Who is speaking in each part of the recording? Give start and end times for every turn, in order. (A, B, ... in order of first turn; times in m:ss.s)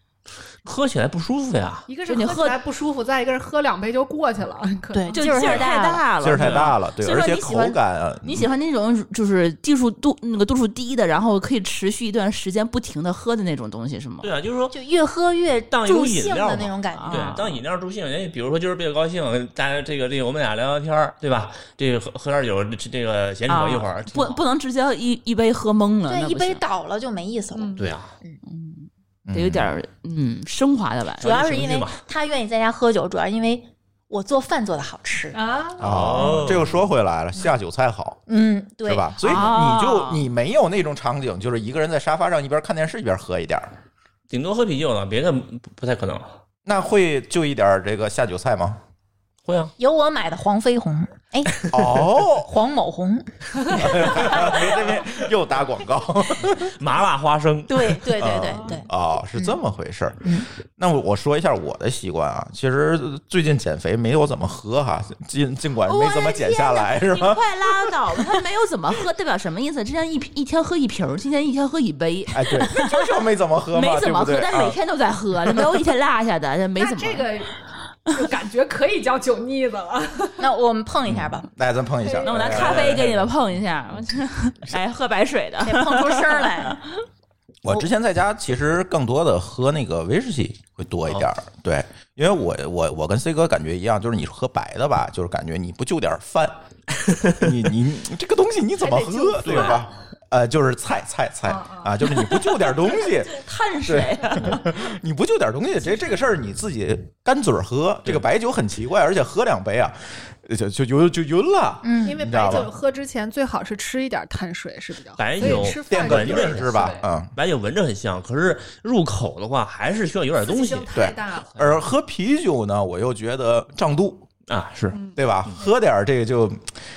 0:00.6-0:01.9 A
0:01.9-0:05.7 B
0:02.1-0:02.6 C
0:04.9-0:06.0 D
0:05.1-0:14.3 C
0:06.2-0:08.5 E
0:06.3-0:06.7 A
0:14.2-0:14.8 A
0:14.7-0:17.4 D
0:15.7-0:24.4 A
0:16.9-0:17.6 C
0:23.5-0:26.6 C
0:26.1-0:28.4 D
0:27.5-0:27.9 B
0:27.8-0:28.1 A
0:28.4-0:31.3 C
0:29.2-0:29.7 E
0:31.2-0:32.0 A
0:31.2-0:35.4 D
0:35.3-0:36.0 B
0:35.8-0:38.2 E
0:35.8-0:36.8 A
0:38.3-0:39.1 D
0:38.8-0:43.7 E
0:39.2-0:40.2 C
0:44.3-0:46.4 A
0:46.6-0:48.8 E
0:49.4-0:49.7 A
0:49.8-0:51.7 D
0:51.7-0:52.5 E
0:52.4-0:54.6 D
0:53.7-0:56.7 E
0:54.1-0:55.3 A
0:56.5-0:58.1 A
0:57.7-0:59.6 D
0:58.2-1:07.4 E
1:05.8-1:12.8 C
1:12.3-1:14.8 E
1:13.7-1:17.3 C
1:16.8-1:17.6 B
1:18.1-1:20.5 B
1:20.4-1:21.5 D
1:21.0-1:23.0 E
1:22.0-1:22.7 B
1:22.2-1:26.9 C
1:22.3-1:23.3 A
1:25.6-1:26.8 D
1:27.6-1:36.5 E
1:37.4-1:52.7 E
1:38.8-1:39.7 C
1:39.4-1:39.8 A
1:41.4-1:42.0 B
1:42.7-1:44.6 C
1:51.8-1:52.2 D
1:52.0-1:57.1 B
1:55.2-2:00.9 A
1:55.4-1:57.3 E
2:00.4-2:01.6 B
2:00.9-2:04.3 E
2:04.5-2:05.6 A
2:04.9-2:05.2 B
2:05.2-2:06.7 E